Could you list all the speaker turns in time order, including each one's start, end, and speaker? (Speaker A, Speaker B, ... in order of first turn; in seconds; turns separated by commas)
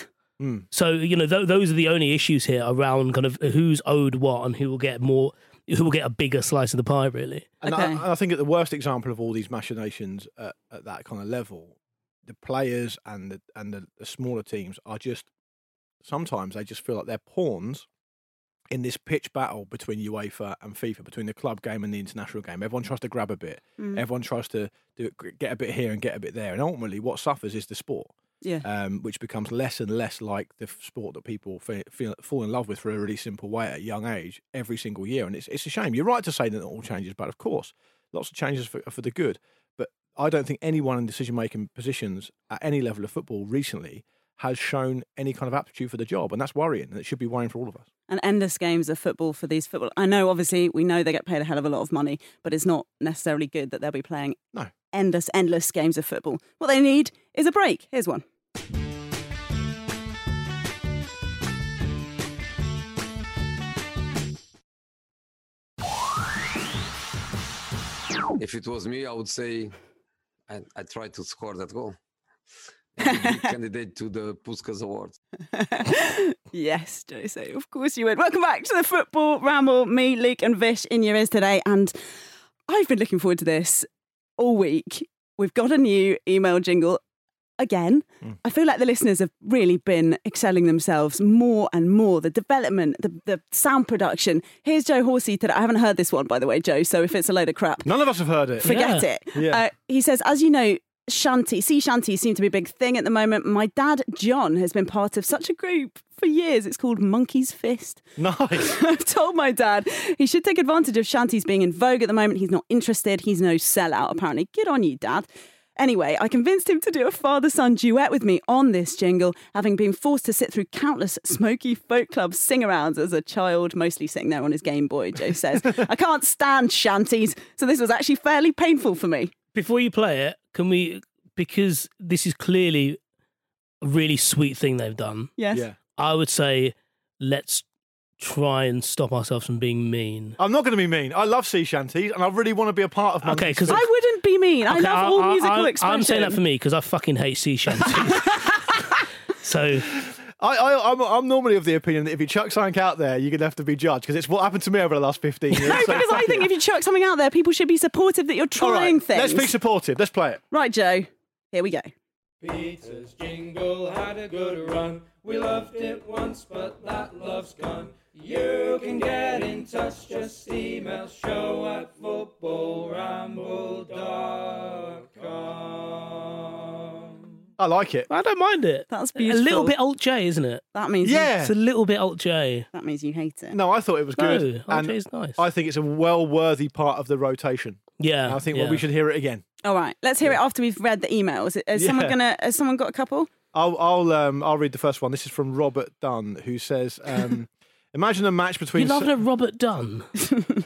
Speaker A: 0.4-0.7, Speaker B: 0.7-7.5, Speaker A: 7.6-15.3, Speaker C: 7.6-8.0, Speaker A: 16.0-17.9, Speaker A: 18.7-28.1, Speaker A: 28.6-47.9, Speaker C: 48.1-54.4, Speaker C: 54.9-58.2, Speaker D: 68.4-69.8, Speaker D: 70.5-72.0, Speaker D: 73.0-75.2, Speaker C: 75.5-81.9, Speaker C: 82.7-83.9, Speaker C: 84.4-87.0, Speaker C: 87.6-97.9, Speaker A: 97.8-98.7, Speaker C: 98.6-108.0, Speaker B: 98.6-99.0, Speaker A: 99.3-99.6, Speaker A: 108.2-108.7, Speaker C: 108.5-129.3, Speaker B: 129.5-133.0, Speaker B: 133.8-135.3, Speaker C: 135.4-135.7, Speaker B: 136.0-137.6, Speaker B: 138.2-140.4, Speaker A: 140.4-143.8, Speaker B: 143.2-143.8, Speaker C: 143.7-146.4, Speaker B: 144.7-148.7, Speaker B: 149.4-149.9, Speaker A: 150.0-156.5, Speaker C: 155.5-159.5, Speaker A: 158.6-160.4, Speaker C: 160.5-161.9, Speaker E: 162.4-177.2, Speaker A: 177.6-178.1, Speaker B: 178.1-180.6, Speaker C: 178.9-179.7, Speaker C: 180.7-181.3, Speaker A: 181.0-181.5, Speaker B: 181.4-182.7, Speaker C: 182.7-183.6, Speaker A: 183.5-189.4, Speaker B: 184.2-185.4, Speaker B: 188.0-188.8, Speaker C: 189.6-193.3, Speaker A: 191.8-192.2, Speaker A: 193.5-199.1, Speaker B: 198.8-200.1